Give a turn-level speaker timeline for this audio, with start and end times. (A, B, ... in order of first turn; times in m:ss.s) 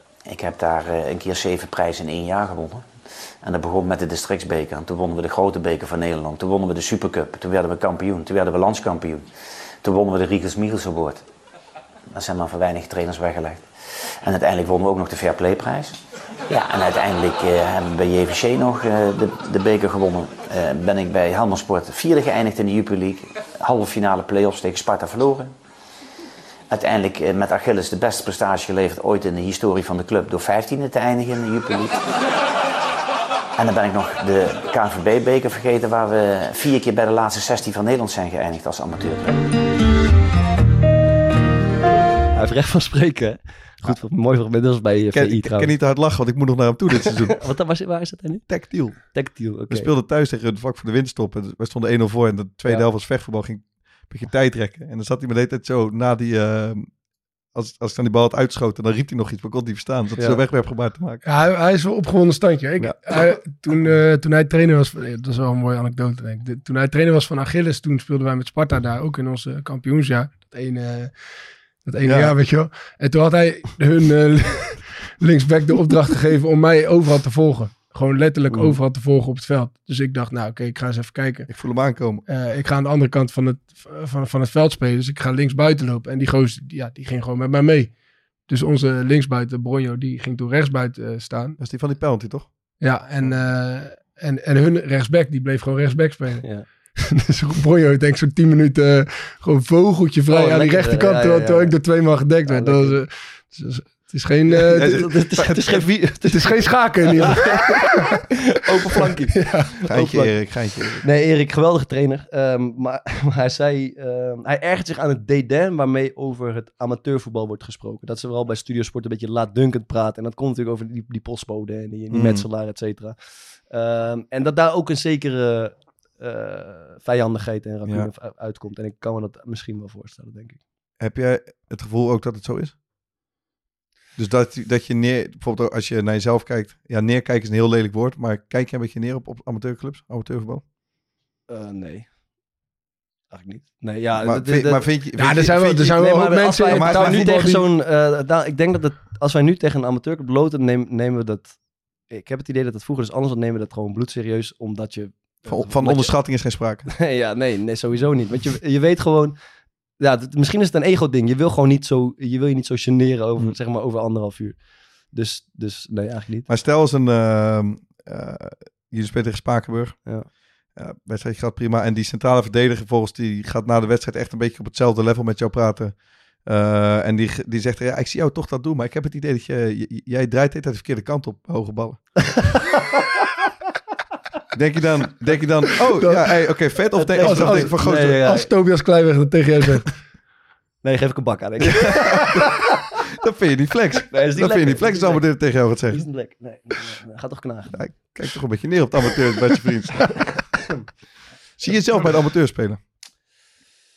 0:00.2-0:02.8 A
0:03.4-0:09.2 A
0:09.8-0:11.2 A
0:12.1-0:13.6 A
0:14.2-0:25.5 A
0:26.7-0:32.0 A
0:33.6-0:39.4 A
0:42.3-0:45.7 B
0:45.1-0:47.4 C
0:47.0-0:49.9 B
0:48.5-0:49.1 C
0:49.7-0:56.9 C
0:57.5-1:01.2 C
1:01.2-1:11.1 D
1:11.8-1:21.5 D
1:12.0-1:12.3 C
1:18.5-1:18.8 B
1:21.5-1:22.2 C
1:22.3-1:27.9 D
1:28.5-1:31.6 D
1:31.6-1:32.5 C
1:32.8-1:36.4 D
1:37.0-1:45.0 D
1:40.3-1:41.7 B
1:42.4-1:43.0 B
1:44.6-1:50.3 B
1:44.7-1:45.8 C
1:46.3-1:48.2 D
1:49.3-1:49.7 D
1:49.8-1:51.0 C
1:51.0-2:03.1 B
2:02.1-2:02.4 C
2:03.7-2:10.6 B
2:11.0-2:12.7 C
2:14.2-2:20.6 C
2:21.5-2:22.1 B
2:23.3-2:24.9 B
2:24.2-2:26.1 C
2:25.2-2:27.7 D
2:25.9-2:31.6 B
2:26.6-2:27.3 C
2:32.1-2:36.2 B
2:35.5-2:36.9 C
2:36.9-2:39.4 B
2:40.0-2:44.6 B
2:45.1-2:46.5 B
2:46.5-2:50.0 C
2:50.8-3:02.0 C
3:02.2-3:03.0 B
3:04.5-3:08.3 C
3:06.0-3:06.2 D
3:07.0-3:08.5 B
3:07.2-3:09.9 D
3:10.8-3:12.6 B
3:11.6-3:16.0 C
3:14.1-3:15.2 B
3:15.9-3:18.1 B
3:17.7-3:20.2 C
3:20.1-3:20.8 B
3:21.6-3:22.8 C